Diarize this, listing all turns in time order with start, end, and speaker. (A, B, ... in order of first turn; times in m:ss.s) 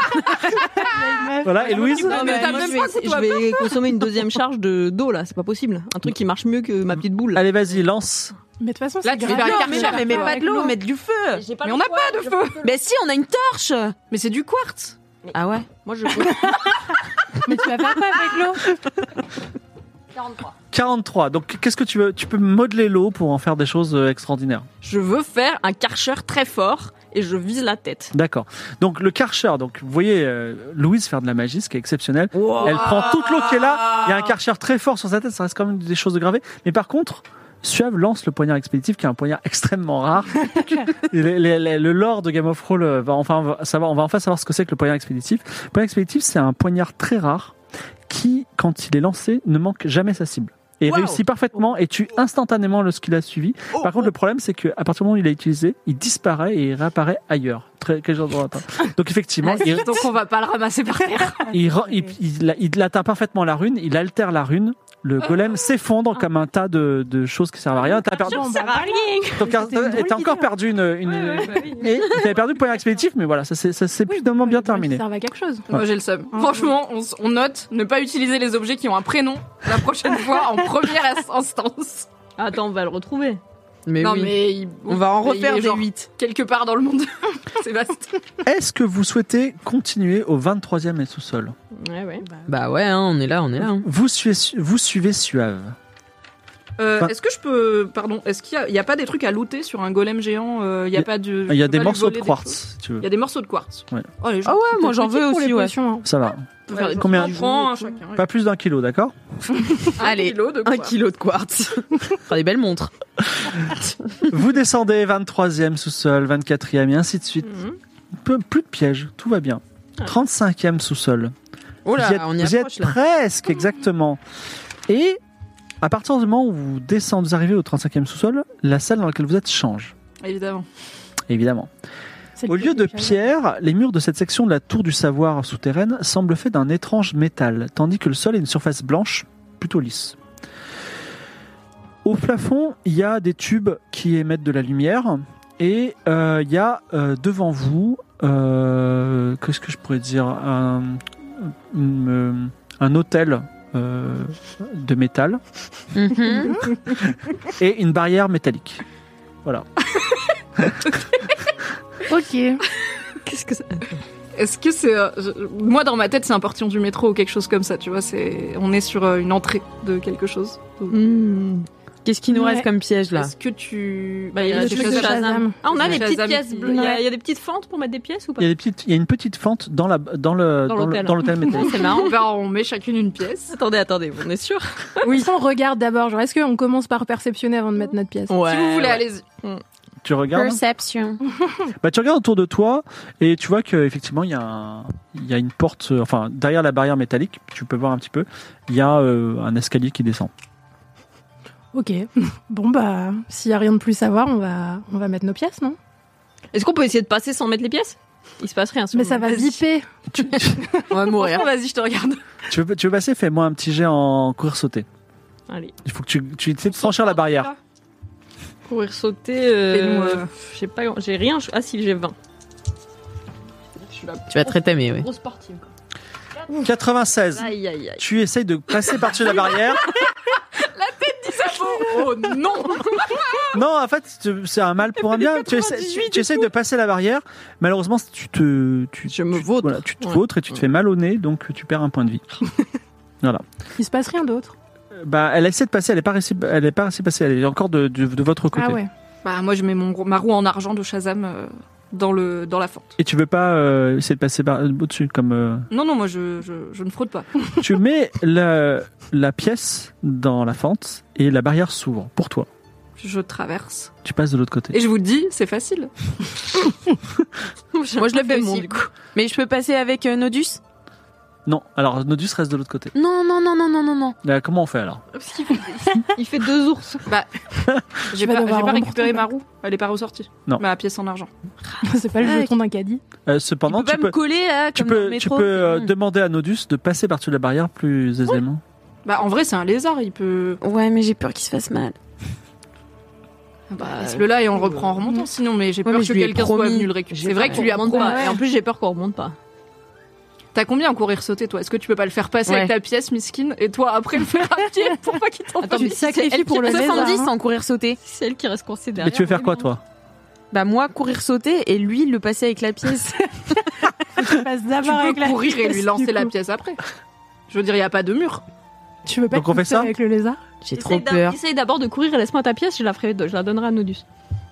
0:00.5-0:02.2 A
0:01.4-0:02.2 B
0:02.0-0:03.8 C
0:02.0-0:07.5 D
0:02.1-0:02.9 E
0:07.3-0:08.3 B
0:08.6-0:10.8 A
0:09.0-0:10.4 C
0:09.2-0:11.4 E
0:11.3-0:12.7 D
0:11.6-0:12.6 C
0:12.6-0:14.0 E
0:14.1-0:15.0 C
0:15.3-0:16.8 D
0:15.3-0:15.7 E
0:17.4-0:18.7 A
0:20.2-0:20.5 D
0:20.7-0:24.7 B
0:24.8-0:28.1 D
0:28.1-0:47.6 B
0:32.4-0:33.0 E
0:48.1-1:00.1 B
0:50.9-0:51.2 E
0:59.6-1:01.5 C
1:01.2-1:02.1 A
1:01.5-1:08.8 B
1:08.2-1:10.5 A
1:08.4-1:09.0 D
1:09.3-1:15.0 B
1:11.2-1:12.2 D
1:14.1-1:15.7 A
1:15.7-1:22.1 C
1:16.3-1:16.7 A
1:22.4-1:23.4 D
1:23.9-1:26.1 E
1:24.0-1:28.2 C
1:28.4-1:31.6 B
1:31.7-1:32.2 D
1:32.2-1:32.5 A
1:32.5-1:33.9 E
1:33.6-1:35.8 B
1:36.8-1:44.9 C
1:41.0-1:43.1 B
1:44.4-1:45.8 E
1:44.8-1:46.1 A
1:46.0-1:47.4 B
1:46.7-1:48.0 D
1:46.7-1:48.3 C
1:48.2-1:49.2 B
1:49.9-1:51.0 C
1:50.0-1:52.9 E
1:54.3-1:57.6 B
1:57.4-1:57.8 D
1:58.2-2:01.3 B
2:01.9-2:03.0 E
2:01.9-2:04.2 B
2:04.9-2:05.2 B
2:05.8-2:09.9 B
2:10.2-2:10.7 C
2:11.3-2:11.7 B
2:12.4-2:13.2 A
2:12.5-2:20.2 B
2:22.0-2:35.4 B
2:35.9-2:36.6 E
2:36.9-2:38.8 B
2:42.1-2:42.6 A
2:43.2-2:44.0 D
2:44.4-2:51.0 C
2:50.9-2:51.7 D
2:52.0-2:53.3 E
2:52.3-2:52.7 A
2:53.2-2:57.0 C
2:54.3-2:58.5 D
2:54.5-2:56.0 A
2:56.7-2:57.1 A
2:58.4-3:01.8 B
3:00.7-3:02.2 D
3:01.6-3:03.6 C
3:03.5-3:05.1 D
3:05.0-3:08.4 A
3:08.3-3:09.6 D
3:08.4-3:09.3 C
3:10.0-3:10.6 B
3:10.4-3:11.2 E
3:11.8-3:20.3 B
3:21.7-3:25.8 A
3:26.5-3:29.4 D
3:28.9-3:30.8 A
3:29.3-3:29.5 C
3:30.2-3:30.6 B
3:30.9-3:31.5 E
3:31.0-3:32.2 C
3:31.1-3:32.1 D
3:32.5-3:34.9 B
3:35.5-3:35.8 D
3:35.8-3:37.5 B
3:36.8-3:37.5 C
3:38.7-3:42.2 D
3:39.7-3:40.3 C
3:43.9-3:45.7 D
3:44.3-3:45.1 E
3:46.6-3:49.9 B
3:47.3-3:48.0 D
3:50.6-3:53.5 C
3:52.7-3:53.0 D
3:53.5-4:02.2 B
3:55.0-3:56.5 D
3:59.1-4:00.6 D
4:03.8-4:04.6 A
4:05.0-4:08.8 B
4:08.5-4:08.9 A
4:09.2-4:12.9 C
4:13.0-4:15.7 B
4:15.7-4:17.3 C
4:17.6-4:22.5 B
4:23.0-4:23.9 C
4:24.0-4:24.8 B
4:24.7-4:25.9 C
4:27.7-4:28.9 D
4:28.0-4:30.6 E
4:31.5-4:32.9 B
4:33.0-4:34.2 E
4:34.2-4:35.0 B
4:35.1-4:37.0 D
4:38.1-4:41.3 C
4:38.1-4:39.3 A
4:41.8-4:42.5 E
4:41.8-4:43.0 A
4:43.3-4:44.2 B
4:43.7-4:45.9 E
4:44.7-4:48.6 B
4:49.0-4:50.6 C
4:50.6-4:52.0 E
4:53.7-4:58.4 C
4:54.0-4:54.8 D
4:55.8-4:57.6 E
4:57.1-4:59.4 D
4:58.0-4:58.4 A
5:00.6-5:06.0 C
5:05.6-5:07.2 D
5:05.7-5:07.3 A
5:06.2-5:08.0 E
5:08.0-5:09.7 D
5:09.0-5:09.8 B
5:10.5-5:13.2 E
5:14.0-5:16.3 A
5:14.8-5:16.8 C
5:17.5-5:18.4 C
5:19.1-5:20.4 A
5:19.3-5:19.9 B
5:20.6-5:21.4 E
5:20.8-5:24.0 D